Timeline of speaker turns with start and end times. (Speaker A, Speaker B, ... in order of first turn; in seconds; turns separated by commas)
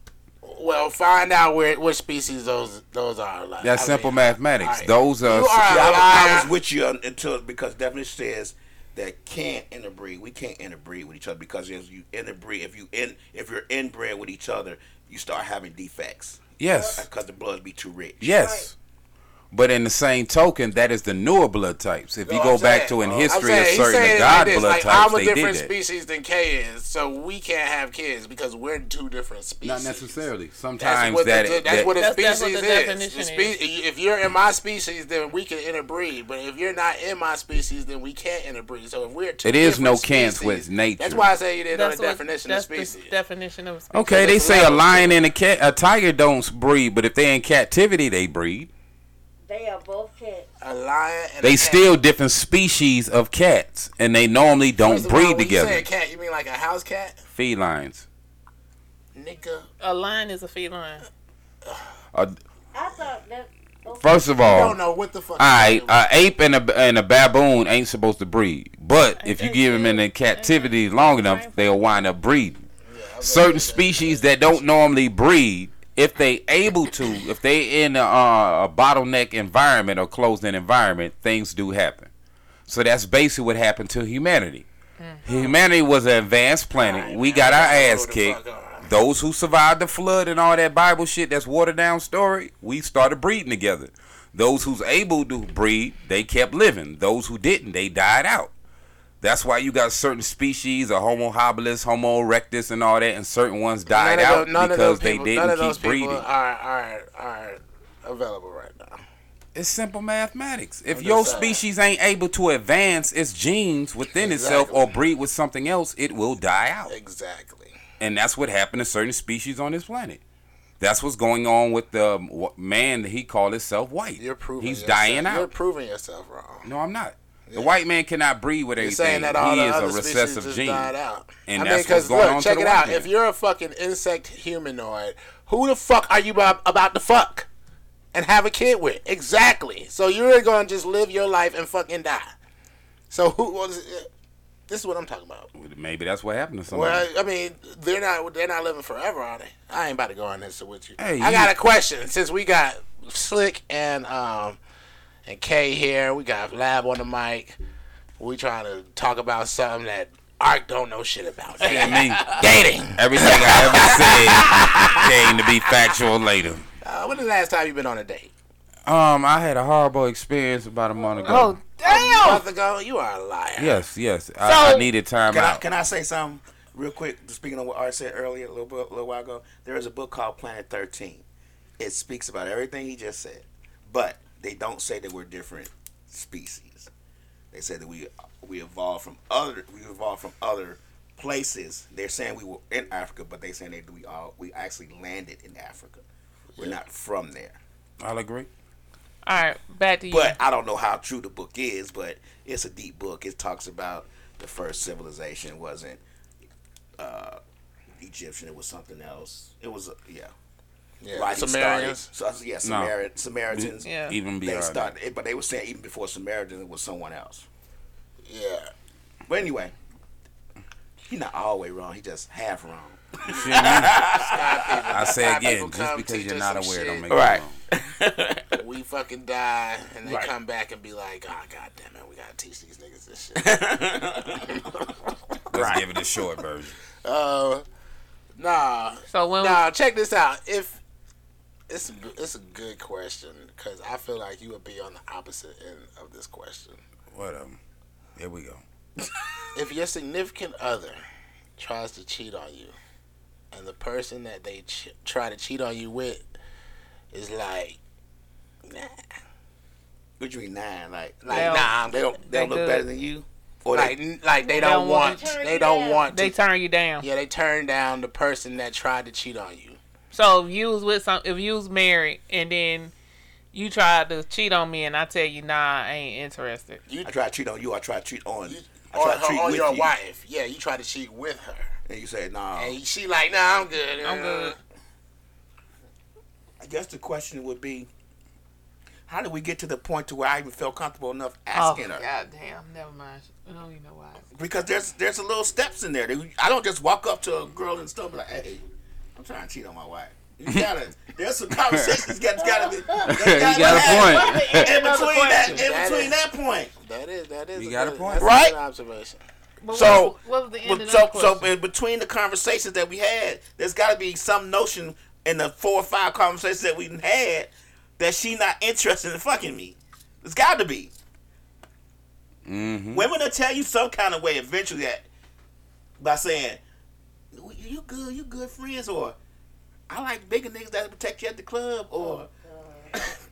Speaker A: 0.4-6.5, Speaker B: 3.6-6.1, Speaker C: 5.7-16.4, Speaker B: 16.6-17.1, Speaker D: 16.7-17.0, Speaker C: 16.9-18.4, Speaker B: 18.2-18.7, Speaker D: 18.4-18.7, Speaker B: 19.5-25.7, Speaker A: 22.2-30.2, Speaker B: 29.6-31.9, Speaker A: 30.8-43.1, Speaker E: 31.9-33.5, Speaker B: 39.4-41.3, Speaker E: 41.7-44.9, Speaker B: 43.9-48.7, Speaker A: 44.1-45.1, Speaker D: 49.5-50.5, Speaker A: 50.6-51.9, Speaker B: 51.4-55.9, Speaker A: 54.8-57.2, Speaker B: 57.3-58.0, Speaker A: 59.1-59.7, Speaker E: 59.8-61.0, Speaker D: 62.7-64.3, Speaker B: 64.0-64.8, Speaker A: 64.4-65.9, Speaker B: 65.4-72.6, Speaker E: 69.2-71.8, Speaker A: 72.8-74.7, Speaker B: 73.2-82.1, Speaker B: 82.7-84.7, Speaker E: 85.0-85.5, Speaker B: 85.2-98.5, Speaker A: 86.7-88.9, Speaker B: 99.2-106.2, Speaker A: 103.9-109.0, Speaker B: 109.5-117.0, Speaker A: 110.9-111.6, Speaker A: 114.1-114.9, Speaker A: 116.9-117.8, Speaker B: 118.0-120.2, Speaker B: 120.8-125.5, Speaker A: 124.2-126.7, Speaker B: 126.6-130.9, Speaker A: 127.5-127.8, Speaker A: 128.8-137.5, Speaker B: 131.5-133.1, Speaker A: 138.1-142.3, Speaker A: 143.1-144.1, Speaker A: 144.7-145.5, Speaker B: 145.5-147.1, Speaker A: 146.7-154.6, Speaker B: 151.0-151.5, Speaker A: 155.2-157.6, Speaker A: 158.2-165.1, Speaker C: 161.6-162.5, Speaker B: 161.6-162.3, Speaker B: 162.9-166.7, Speaker A: 166.8-168.3, Speaker B: 168.8-171.6, Speaker E: 171.2-172.4, Speaker A: 171.3-173.8, Speaker B: 173.6-175.6, Speaker E: 174.4-174.9, Speaker C: 175.3-181.2, Speaker C: 181.8-186.9, Speaker C: 187.5-196.0, Speaker C: 196.6-197.6, Speaker B: 198.0-198.5, Speaker E: 199.2-200.4, Speaker C: 200.1-206.0, Speaker C: 207.0-207.4, Speaker C: 208.0-210.3, Speaker A: 211.0-212.1, Speaker C: 211.1-213.9, Speaker B: 212.6-212.9, Speaker B: 213.5-214.9, Speaker E: 213.8-214.2, Speaker C: 214.4-217.4, Speaker A: 218.2-218.7, Speaker C: 219.3-219.7, Speaker C: 221.0-225.0, Speaker B: 223.3-224.0, Speaker A: 223.4-227.1, Speaker B: 224.9-227.6, Speaker C: 227.1-228.6, Speaker A: 228.6-233.6, Speaker C: 230.0-230.3, Speaker C: 233.3-234.7, Speaker C: 235.5-235.8, Speaker B: 235.5-236.8, Speaker A: 237.0-237.6, Speaker A: 238.4-240.8, Speaker E: 239.1-239.6, Speaker A: 241.7-246.8, Speaker B: 247.1-247.6, Speaker B: 248.2-248.6, Speaker A: 249.5-251.0, Speaker A: 251.6-252.8, Speaker A: 253.5-256.2, Speaker A: 257.1-257.8, Speaker A: 258.7-259.0, Speaker C: 260.2-264.0, Speaker A: 261.2-262.0, Speaker E: 261.3-262.8, Speaker A: 263.7-266.3, Speaker D: 264.4-266.1, Speaker E: 264.5-265.3, Speaker E: 266.1-267.1, Speaker A: 267.0-269.8, Speaker E: 270.1-272.9, Speaker E: 273.5-276.8, Speaker A: 276.9-277.2, Speaker C: 277.0-279.9, Speaker A: 278.4-281.7, Speaker C: 281.9-282.8, Speaker A: 282.5-284.6, Speaker E: 284.0-284.6, Speaker C: 286.6-287.9, Speaker C: 289.1-292.0, Speaker E: 291.5-294.2, Speaker C: 294.3-298.6, Speaker C: 299.1-306.7, Speaker B: 301.7-302.1, Speaker D: 302.4-303.0, Speaker B: 303.1-304.8, Speaker E: 303.3-305.6, Speaker A: 305.4-306.2, Speaker A: 306.8-309.2, Speaker B: 307.5-308.4, Speaker C: 308.2-308.5, Speaker E: 309.6-311.5, Speaker C: 309.7-320.9, Speaker B: 322.4-323.1, Speaker C: 322.9-325.1, Speaker C: 326.0-326.6, Speaker C: 327.3-329.1, Speaker C: 329.9-332.3, Speaker D: 332.0-332.9